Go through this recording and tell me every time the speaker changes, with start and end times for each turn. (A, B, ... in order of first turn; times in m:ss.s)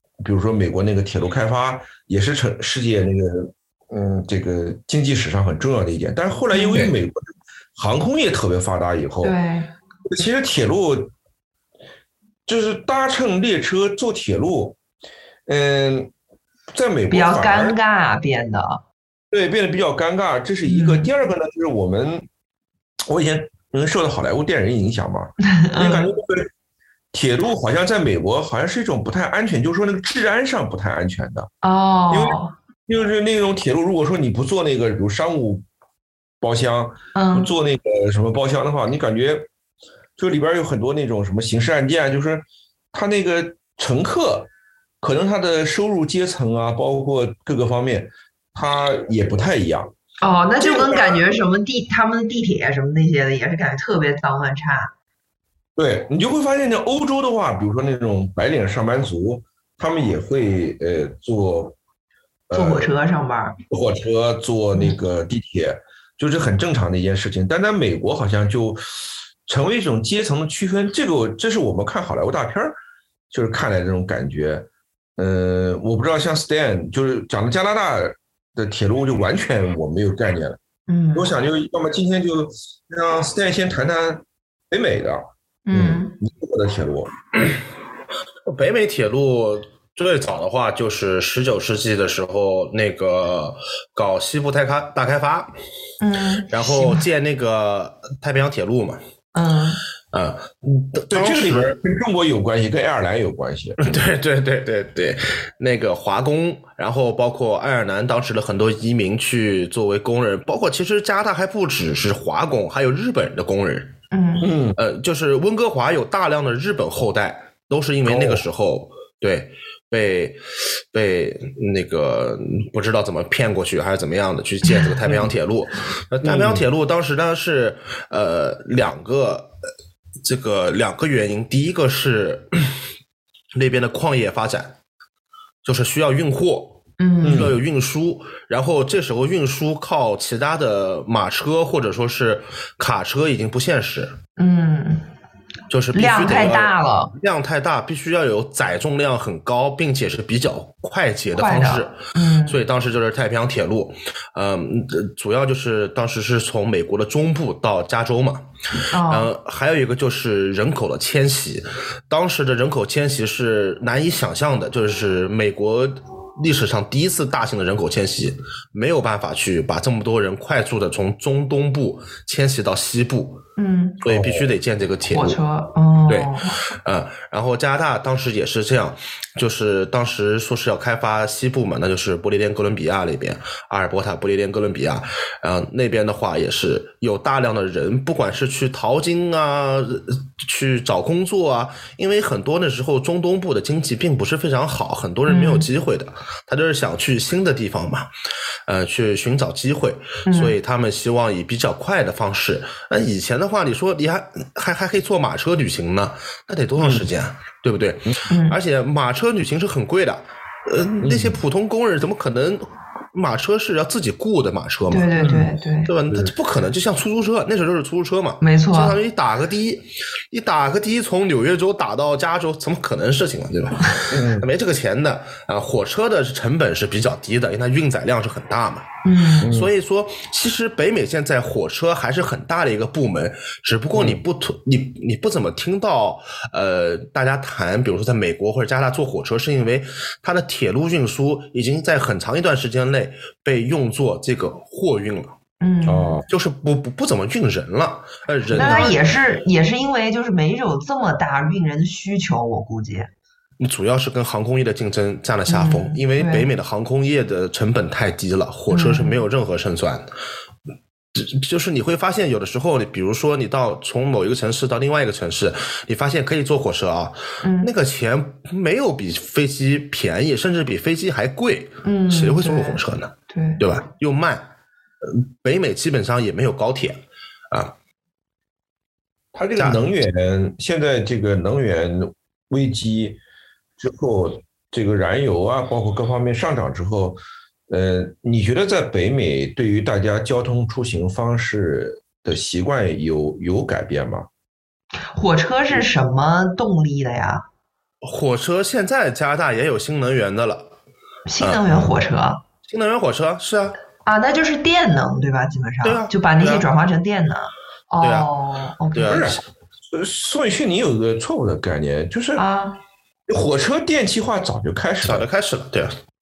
0:00.2-0:09.4 A
0:06.5-0:06.8 B
0:09.2-0:09.7 B
0:10.0-0:11.1 A
0:12.5-0:14.8 A
0:15.5-0:16.1 A
0:16.7-0:17.8 A
0:17.1-0:18.8 B
0:19.3-0:22.3 A
0:20.6-0:21.1 B
0:23.1-0:26.5 A
0:25.4-0:26.1 B
0:27.1-0:31.5 A
0:31.6-0:32.5 B
0:32.1-0:35.6 A
0:36.4-0:39.5 A
0:37.1-0:37.5 B
0:40.2-0:44.5 A
0:45.0-0:49.9 A
0:50.2-0:54.9 B
0:50.6-0:51.2 A
0:55.8-1:01.8 A
1:02.5-1:02.9 A
1:02.5-1:03.6 B
1:03.7-1:12.7 A
1:13.3-1:20.6 A
1:20.9-1:21.3 B
1:21.1-1:27.2 A
1:25.7-1:26.2 B
1:28.4-1:35.6 C
1:36.0-1:37.1 B
1:36.5-1:39.0 C
1:39.4-1:39.8 B
1:40.1-1:41.8 C
1:41.1-1:43.8 A
1:43.8-1:53.9 C
1:54.1-1:54.5 B
1:54.4-1:54.8 A
1:54.8-2:09.6 C
1:58.0-1:58.5 A
2:06.2-2:06.6 A
2:10.2-2:12.8 C
2:13.6-2:14.8 C
2:15.6-2:24.2 C
2:17.0-2:17.5 B
2:17.2-2:17.6 A
2:24.4-2:25.1 B
2:25.7-2:38.5 C
2:25.9-2:27.1 B
2:31.4-2:32.6 B
2:38.9-2:39.3 B
2:39.1-2:53.4 C
2:53.6-2:54.0 B
2:54.0-2:55.4 C
2:54.1-2:54.5 A
2:55.1-2:56.6 B
2:56.1-3:18.1 C
3:15.3-3:15.7 B
3:18.6-4:05.4 C
3:20.3-3:20.6 B
3:26.8-3:27.1 A
3:28.3-3:28.6 B
3:31.0-3:31.4 A
3:34.9-3:35.9 B
3:36.1-3:36.3 A
3:38.4-3:39.0 B
3:44.1-3:44.5 A
3:49.0-3:49.5 B
3:49.4-3:49.7 A
3:53.9-3:54.2 A
4:05.6-4:06.2 B
4:05.9-4:06.2 A
4:06.3-4:09.0 C
4:08.5-4:08.9 A
4:08.6-4:13.1 B
4:13.6-4:20.1 C
4:15.5-4:16.5 B
4:18.7-4:19.2 B
4:21.1-4:34.5 C
4:27.4-4:27.7 B
4:31.8-4:33.6 B
4:35.0-4:37.7 C
4:39.3-4:43.2 A
4:43.8-4:54.3 A
4:55.1-4:57.4 B
4:58.0-5:00.7 C
5:01.3-5:02.4 B
5:01.4-5:01.8 C
5:02.6-5:03.8 C
5:04.1-5:09.3 B
5:05.8-5:06.6 C
5:08.0-5:08.3 C
5:08.9-5:09.4 C
5:09.1-5:12.4 A
5:12.4-5:12.8 B
5:13.3-5:15.3 A
5:15.0-5:16.0 C